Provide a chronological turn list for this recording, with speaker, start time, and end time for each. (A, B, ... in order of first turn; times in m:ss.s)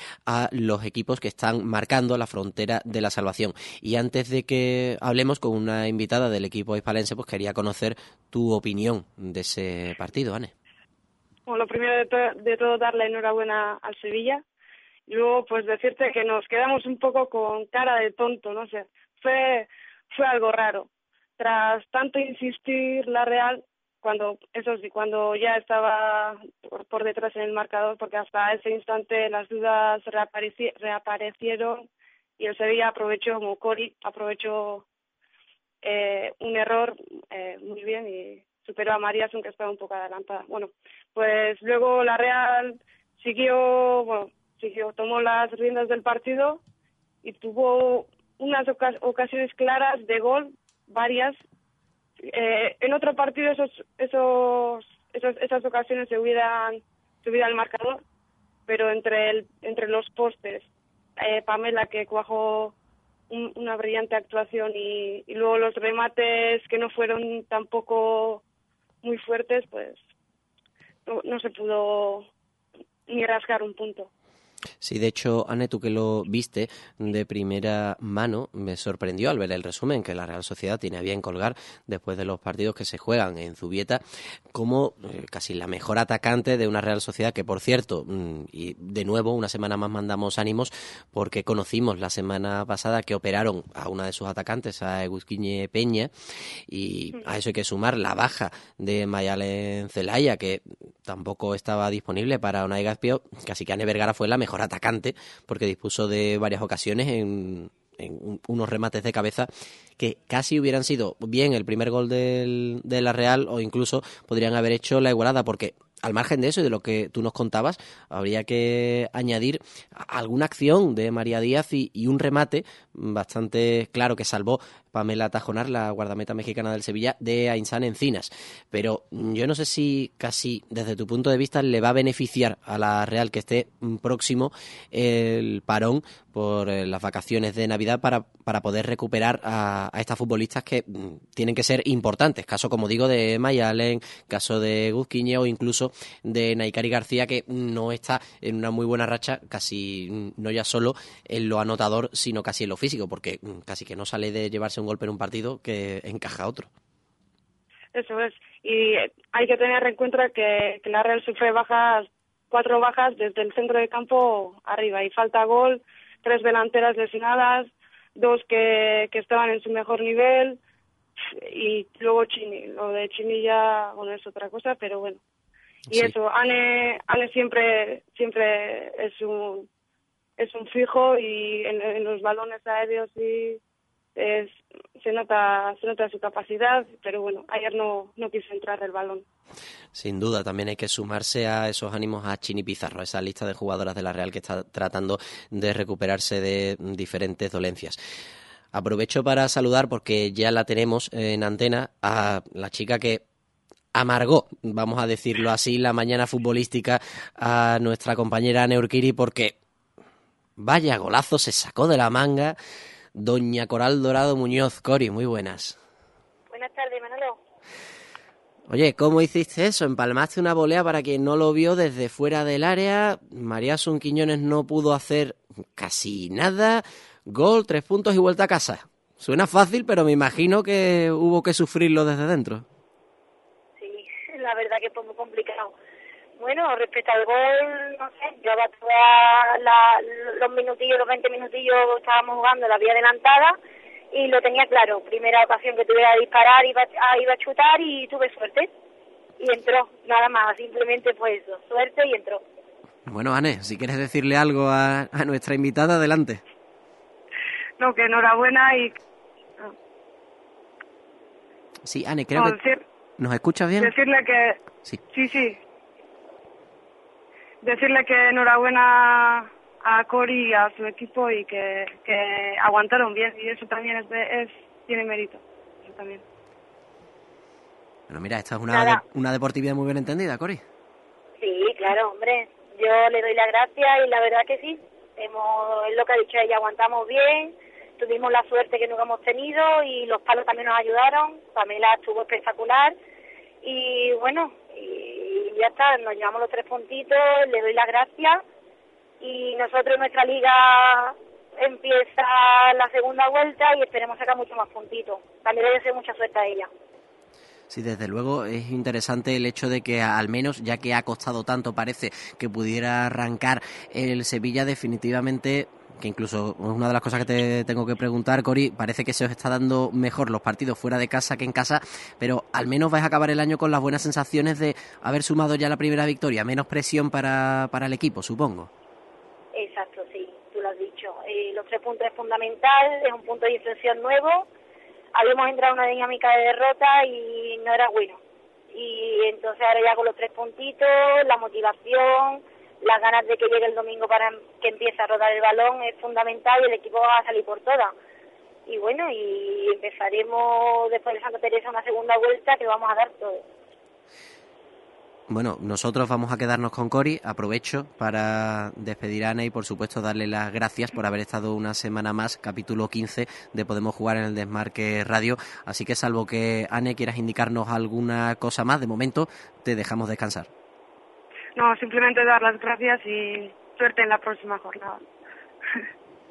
0:00.3-0:10.5 A
0:11.5-0:14.4 B
0:15.1-0:20.9 B
0:21.4-0:31.9 B
0:32.4-0:34.8 B
0:35.8-0:46.6 B
0:47.2-0:51.4 B
0:52.3-0:58.0 B
0:58.7-1:00.6 B
1:01.2-1:02.7 B
1:03.3-1:08.4 B
1:09.0-1:10.0 B
1:11.1-1:12.3 B
1:13.1-1:14.1 B
1:14.8-2:36.7 A
2:37.9-2:50.6 B
2:51.5-2:55.2 B
2:55.9-2:59.7 B
3:00.4-3:03.6 B
3:04.2-3:09.2 B
3:10.0-3:18.0 A
3:18.7-3:23.2 A
3:23.9-3:29.6 A
3:30.6-3:32.6 A
3:33.2-3:35.8 A
3:36.5-3:37.4 C
3:38.7-3:52.7 A
3:53.8-3:55.7 C
3:56.4-4:03.6 C
4:04.1-4:08.7 C
4:09.4-4:12.4 C
4:13.1-4:16.4 A
4:17.8-4:19.0 B
4:21.8-4:22.6 A
4:22.4-4:22.8 B
4:23.2-4:24.0 A
4:23.8-4:24.6 B
4:25.1-4:25.6 B
4:27.6-4:36.2 B
4:38.1-4:40.6 A
4:38.7-4:39.0 C
4:41.4-4:53.0 C
4:53.6-4:58.4 C
4:59.2-5:06.7 C
5:07.7-5:28.7 A
5:29.6-5:34.5 C
5:35.2-5:38.2 C
5:38.7-5:47.9 C
5:48.7-5:53.4 C
5:55.3-6:10.5 A
6:11.6-6:15.0 B